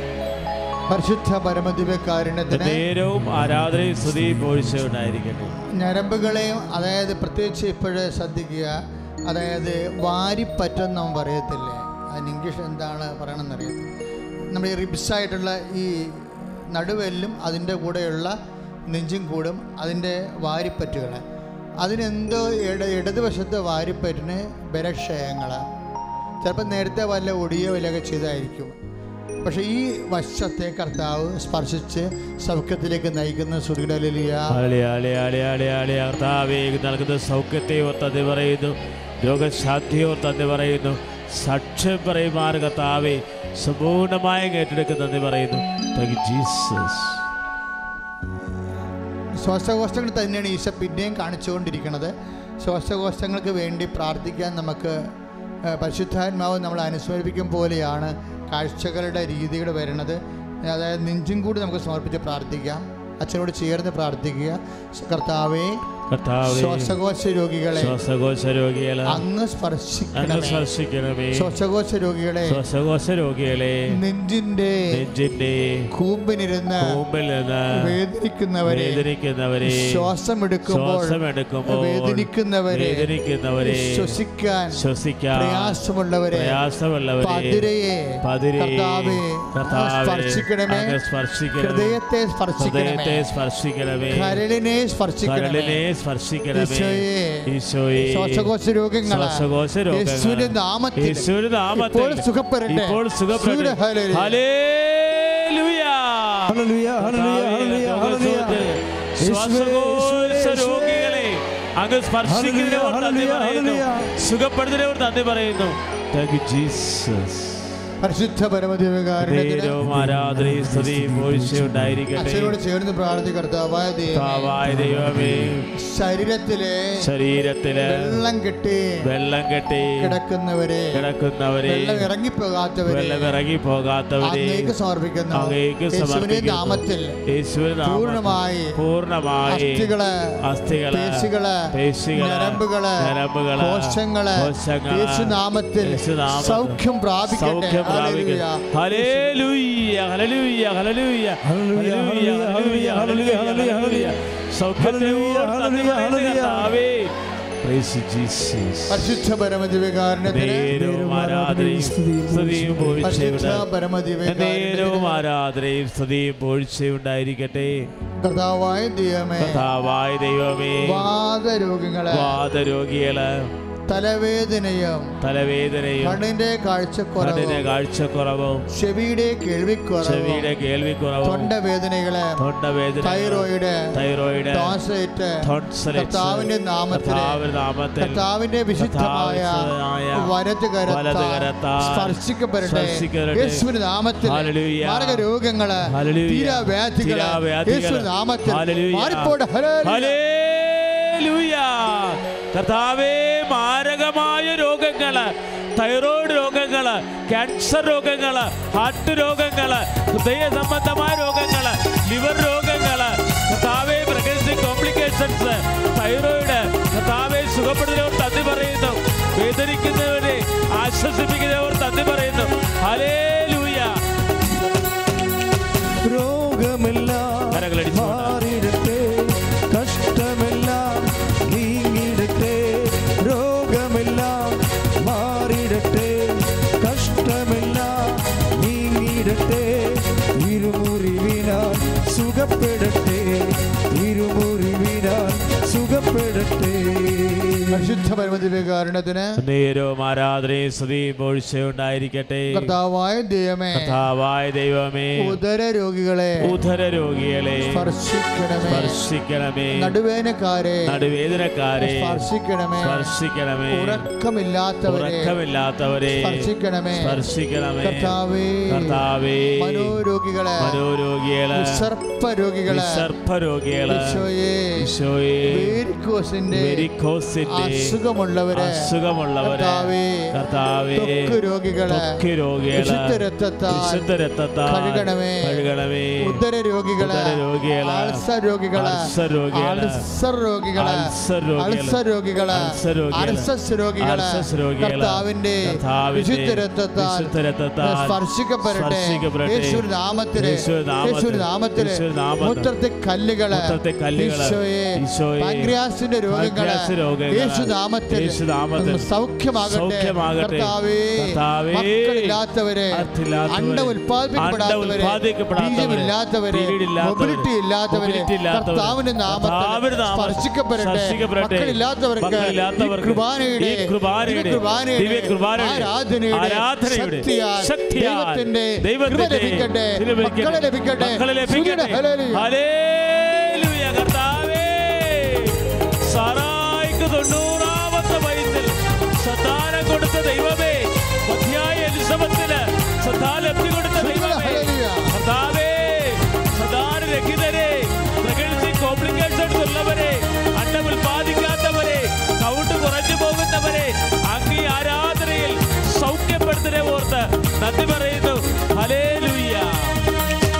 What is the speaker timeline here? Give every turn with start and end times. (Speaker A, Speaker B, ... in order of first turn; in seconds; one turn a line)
Speaker A: 0.9-2.8
Speaker B: 2.5-5.5
Speaker C: 3.1-5.0
Speaker A: 5.7-13.9
Speaker A: 14.5-18.3
Speaker A: 18.9-21.2
Speaker A: 21.8-25.6
Speaker A: 26.4-28.8
Speaker A: 29.4-34.5
Speaker B: 34.5-47.2
Speaker A: 49.4-55.0
Speaker A: 55.7-65.8
Speaker B: 66.1-67.0
Speaker A: 66.4-68.0
Speaker B: 67.8-69.2
Speaker A: 69.0-70.7
Speaker B: 70.1-71.5
Speaker A: 71.3-72.6
Speaker B: 72.5-73.9
Speaker A: 73.9-75.1
Speaker B: 74.9-75.9
Speaker A: 75.9-76.9
Speaker B: 76.8-78.0
Speaker A: 77.7-79.0
Speaker B: 78.7-80.0
Speaker A: 79.6-83.1
Speaker B: 80.7-84.2
Speaker A: 83.6-84.8
Speaker B: 84.7-85.8
Speaker A: 85.3-86.6
Speaker B: 86.3-87.7
Speaker A: 87.2-90.9
Speaker B: 88.2-92.0
Speaker A: 91.6-93.2
Speaker B: 92.6-94.4
Speaker A: 94.1-95.8
Speaker B: 95.2-98.5
Speaker A: 96.5-97.5
Speaker A: 98.0-104.4
Speaker B: 99.0-117.7
Speaker C: 106.5-108.7
Speaker C: 109.2-111.3
Speaker C: 112.2-114.2
Speaker A: 118.0-119.8
Speaker B: 119.2-122.5
Speaker C: 119.8-122.0
Speaker A: 122.2-124.7
Speaker B: 124.1-125.7
Speaker C: 124.6-125.6
Speaker A: 125.7-127.0
Speaker B: 127.0-128.2
Speaker A: 127.8-128.9
Speaker B: 129.0-130.2
Speaker A: 129.9-131.1
Speaker B: 130.9-132.1
Speaker A: 131.6-133.3
Speaker B: 132.9-134.7
Speaker A: 134.2-137.2
Speaker B: 135.3-157.1
Speaker A: 137.8-138.8
Speaker A: 139.5-149.3
Speaker C: 151.4-154.2
Speaker C: 154.8-156.8
Speaker B: 157.6-159.2
Speaker A: 158.9-160.7
Speaker B: 160.3-163.7
Speaker C: 160.7-163.1
Speaker A: 163.0-165.2
Speaker B: 164.2-167.9
Speaker A: 168.2-169.7
Speaker B: 169.4-171.1
Speaker A: 170.8-172.4
Speaker B: 172.1-173.5
Speaker A: 173.9-175.2
Speaker B: 175.2-176.2
Speaker A: 176.0-177.7
Speaker B: 177.2-178.6
Speaker A: 178.7-180.5
Speaker B: 180.0-181.5
Speaker A: 181.2-182.4
Speaker B: 182.4-184.8
Speaker A: 183.0-183.9
Speaker A: 184.5-187.4
Speaker B: 185.4-188.2
Speaker A: 188.0-200.2
Speaker B: 188.8-190.3
Speaker B: 190.9-193.6
Speaker B: 194.2-195.2
Speaker B: 195.8-224.0
Speaker C: 226.0-247.9
Speaker B: 227.5-228.4
Speaker A: 247.7-249.4
Speaker B: 249.4-252.7
Speaker A: 252.5-253.9
Speaker B: 253.7-255.4
Speaker A: 255.2-256.5
Speaker B: 256.4-257.9
Speaker A: 257.6-259.0
Speaker B: 258.7-259.9
Speaker A: 259.7-261.1
Speaker B: 260.9-264.0
Speaker A: 261.8-263.1
Speaker A: 263.7-265.3
Speaker B: 264.9-268.2
Speaker A: 266.1-267.2
Speaker A: 267.8-269.0
Speaker B: 268.7-270.0
Speaker A: 269.6-270.8
Speaker B: 270.6-271.9
Speaker A: 271.5-273.1
Speaker B: 272.7-274.2
Speaker A: 273.9-274.9
Speaker B: 274.8-275.8
Speaker A: 275.4-276.9
Speaker B: 276.5-277.9
Speaker A: 277.5-278.9
Speaker B: 278.5-281.4
Speaker A: 279.4-280.3
Speaker A: 280.9-282.2
Speaker B: 281.9-286.4
Speaker A: 282.7-284.0
Speaker A: 284.6-285.6
Speaker A: 286.2-291.1
Speaker B: 287.0-288.2
Speaker B: 288.8-290.0
Speaker B: 290.8-292.0
Speaker A: 291.6-332.5
Speaker B: 292.5-293.5
Speaker B: 294.0-299.8
Speaker B: 300.4-302.7
Speaker B: 303.5-305.7
Speaker B: 306.3-309.1
Speaker B: 309.6-312.4
Speaker B: 312.9-360.0
Speaker A: 343.9-345.1